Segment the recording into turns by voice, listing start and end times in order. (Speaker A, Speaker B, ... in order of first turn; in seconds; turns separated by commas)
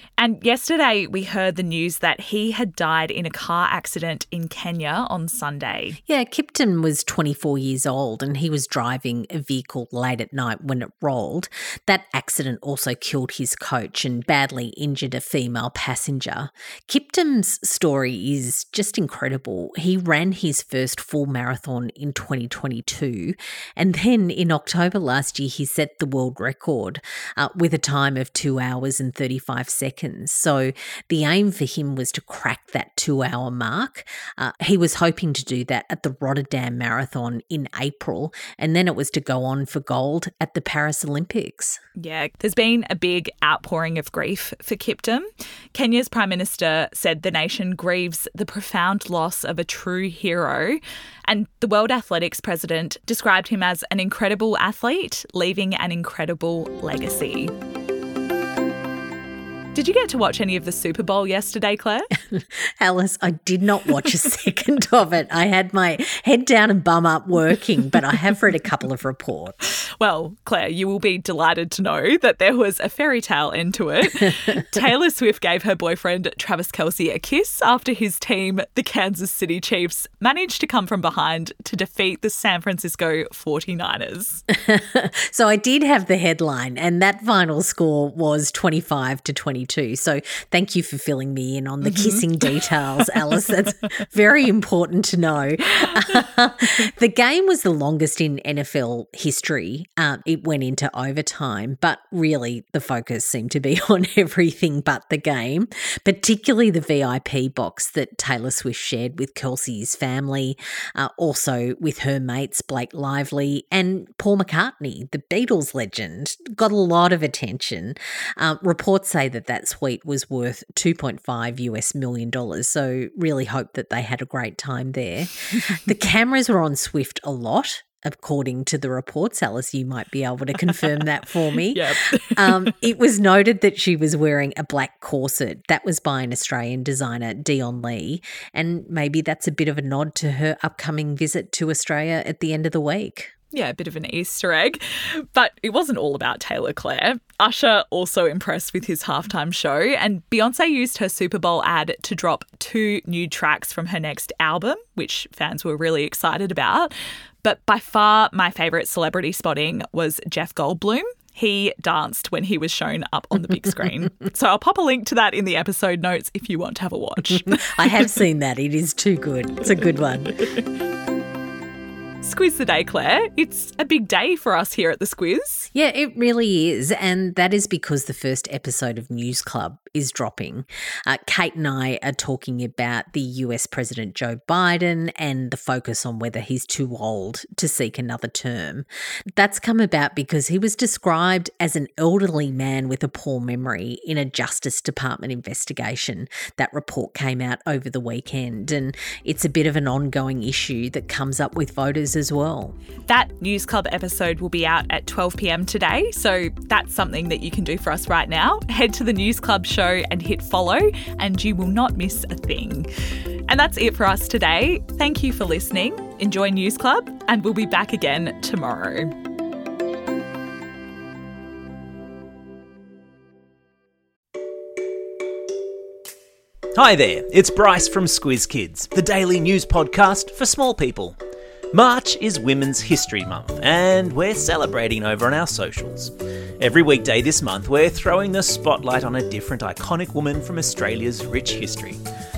Speaker A: 0.2-6.0, Speaker B: 6.1-41.8, Speaker A: 42.0-57.5, Speaker A: 59.7-62.1, Speaker B: 62.3-69.6, Speaker A: 70.0-84.4, Speaker B: 84.5-143.3, Speaker A: 91.8-92.2, Speaker A: 131.7-132.7, Speaker A: 143.5-167.7, Speaker B: 167.5-170.4, Speaker A: 172.2-175.7, Speaker B: 175.7-188.8, Speaker B: 189.4-202.7, Speaker A: 203.1-212.9, Speaker A: 213.5-219.1, Speaker C: 226.7-231.2, Speaker C: 231.7-242.0